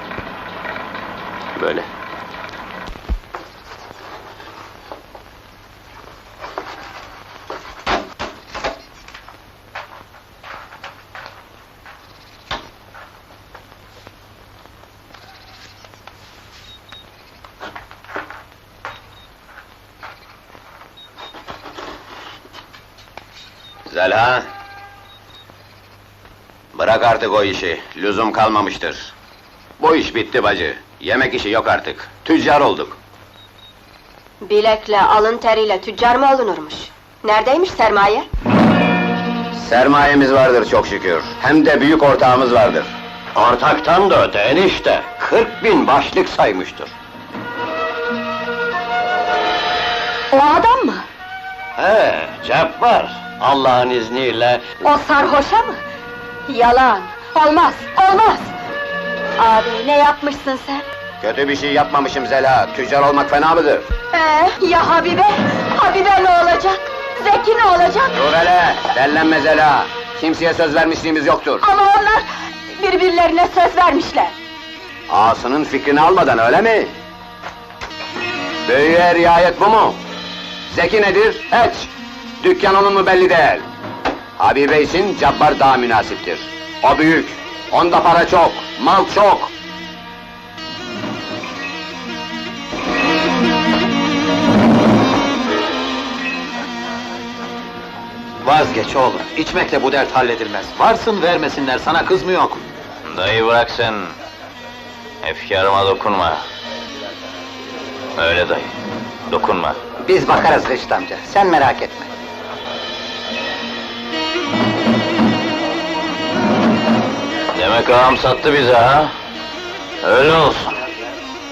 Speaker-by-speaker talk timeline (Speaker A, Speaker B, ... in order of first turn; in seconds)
Speaker A: 23.9-24.4, 26.7-29.1, 29.8-33.0, 39.5-42.9, 61.2-63.9, 68.1-71.6, 75.1-76.9, 78.6-80.0, 80.7-83.6, 84.4-89.5
Speaker B: 34.4-38.3, 50.3-51.0, 54.8-55.8, 56.5-58.5, 59.4-60.8, 64.1-68.2, 71.6-74.3
Speaker C: 43.3-46.9, 51.8-54.6
Speaker D: 98.4-102.6, 110.0-112.1
Speaker E: 103.1-104.2, 105.2-106.4, 108.2-108.7, 109.3-109.8, 117.5-119.1, 120.0-120.7